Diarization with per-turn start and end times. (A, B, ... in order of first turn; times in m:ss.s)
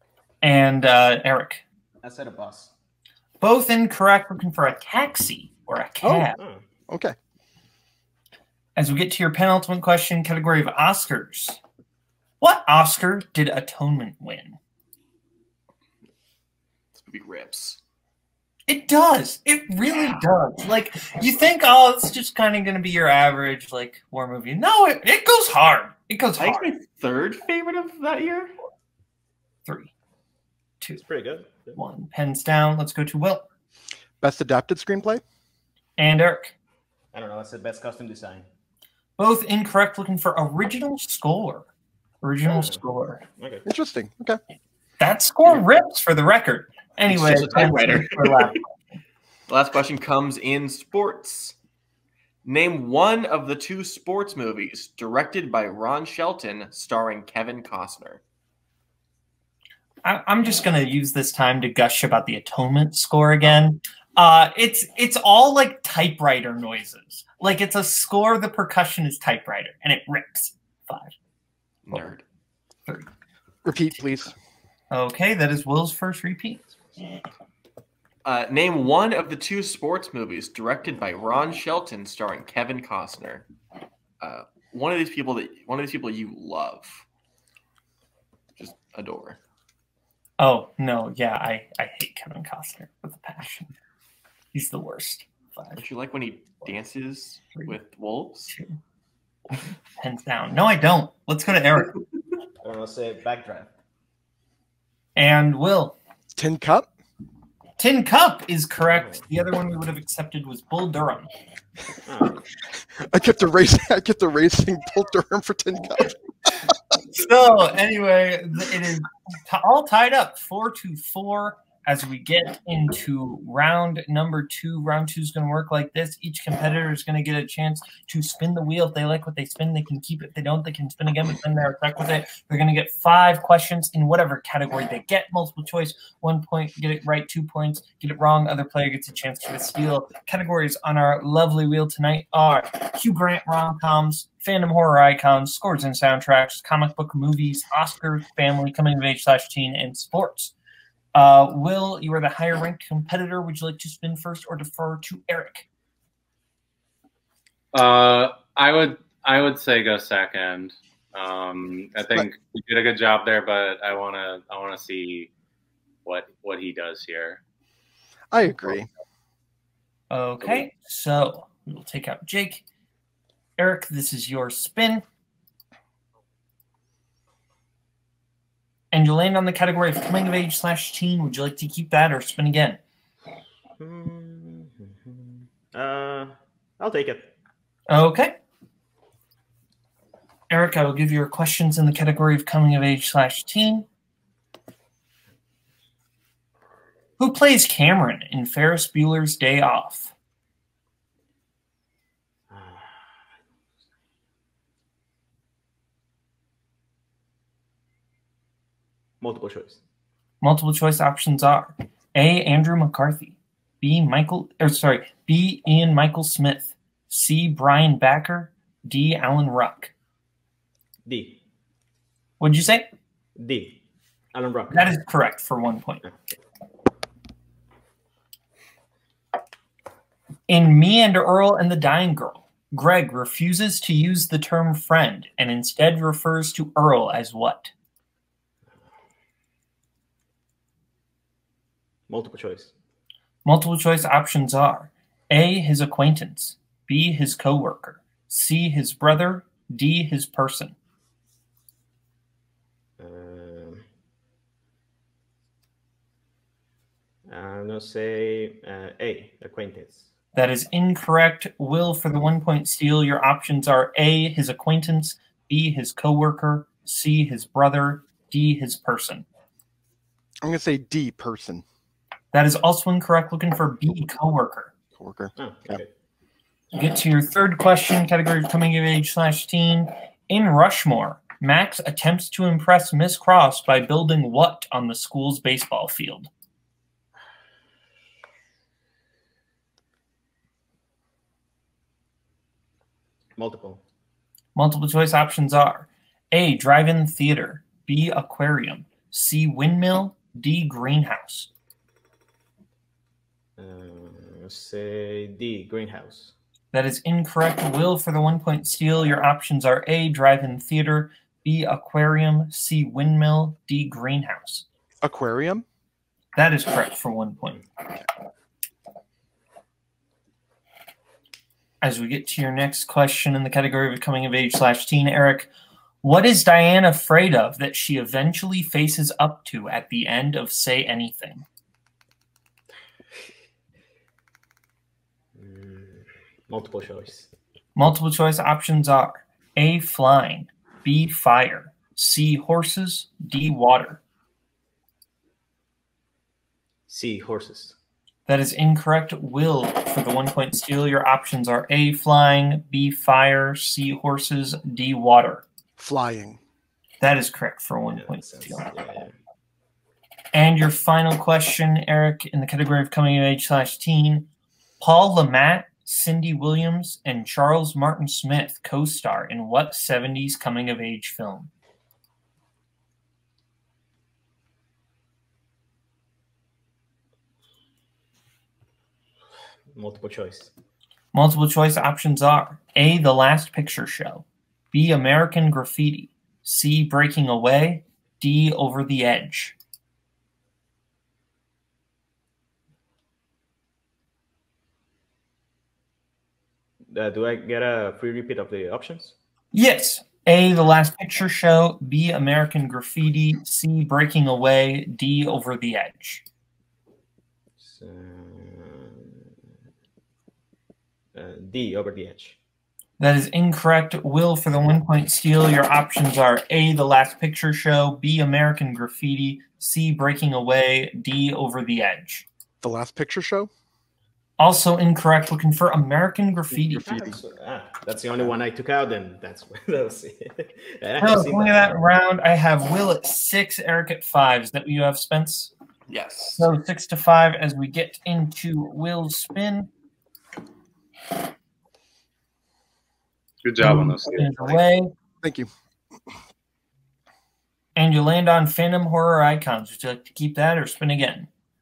0:00.4-0:01.6 A
0:02.0-0:02.7 B
0:03.4-0:06.4 A
0:06.0-0:06.3 C
0:06.4-0:06.6 B
0:06.9-0:07.1 C
0:08.8-0:11.6 A
0:12.4-0:14.6 A
0:16.9-0:17.8 D
0:18.7-0:26.7 A
0:26.4-0:28.5 D
0:29.6-0:29.9 A
0:31.0-0:31.8 B
0:31.7-0:33.4 A
0:34.2-0:35.2 C
0:36.0-0:36.5 A
0:37.1-0:38.4 B
0:39.2-0:41.7 A
0:42.2-0:43.2 A
0:42.5-0:42.8 B
0:43.4-0:43.6 B
0:43.6-0:44.4 C
0:45.0-0:48.6 A
0:47.1-0:48.6 D
0:49.5-0:51.5 D
0:52.4-0:58.2 D
1:00.0-1:11.1 A
1:11.8-1:12.2 D
1:13.6-1:14.3 C
1:14.9-1:16.6 A
1:18.2-1:23.5 D
1:24.2-1:27.0 D
1:28.6-1:29.4 D
1:30.4-1:33.7 A
1:34.5-1:35.8 A
1:35.8-1:38.5 D
1:38.5-1:38.8 A
1:40.0-1:42.0 A
1:42.6-1:43.7 B
1:45.2-1:46.0 A
1:46.3-1:46.9 C
1:47.8-1:51.3 A
1:48.9-1:49.2 B
1:52.0-1:52.4 B
1:52.9-1:56.2 C
1:57.1-2:30.5 A
2:31.1-2:35.6 A
2:37.7-2:45.3 E
2:46.0-2:47.4 E
2:48.3-2:48.9 C
2:50.1-2:52.6 A
2:53.6-2:55.0 A
2:58.9-3:02.8 A
3:03.8-3:07.3 B
3:07.9-3:08.4 A
3:10.5-3:13.9 A
3:17.2-3:20.1 A
3:22.5-3:23.1 B
3:29.2-3:29.8 B
3:30.4-3:39.9 A
3:41.0-3:41.4 B
3:42.4-3:42.9 A
3:43.4-3:43.8 B
3:44.3-3:45.0 B
3:44.7-3:46.0 A
3:50.5-3:57.7 A
4:02.1-4:02.7 B
4:03.4-4:10.8 A
4:13.0-4:13.8 B
4:17.3-4:20.1 B
4:20.3-4:29.2 A
4:30.4-4:31.6 C
4:32.3-4:34.7 A
4:35.0-4:35.8 C
4:35.4-4:35.9 B
4:36.7-4:46.3 A
4:53.4-4:53.8 B
4:54.5-5:01.5 A
5:03.6-5:06.3 B
5:06.7-5:14.6 A
5:15.0-5:15.6 C
5:16.3-5:17.6 A
5:21.8-5:25.5 A
5:26.0-5:31.4 A
5:35.3-5:37.3 B
5:37.8-5:44.0 A
5:46.9-5:47.8 B
5:48.3-5:55.4 A
5:55.8-5:56.4 C
5:57.0-5:58.7 A
5:57.9-5:59.1 B
6:00.3-6:04.3 A
6:04.8-6:11.5 A
6:19.7-6:20.5 B
6:21.1-6:29.5 A
6:36.9-6:39.1 B
6:39.5-6:46.2 A
6:47.6-6:49.3 B
6:51.1-6:52.4 B
6:53.0-7:02.2 A
7:02.6-7:03.5 C
7:04.4-7:06.9 A
7:06.5-7:07.2 C
7:06.8-7:11.8 B
7:11.0-7:15.5 A
7:15.9-7:16.5 D
7:16.4-7:19.7 A
7:23.4-7:24.6 E
7:23.6-7:24.9 A
7:25.2-7:25.5 C
7:27.8-7:31.3 A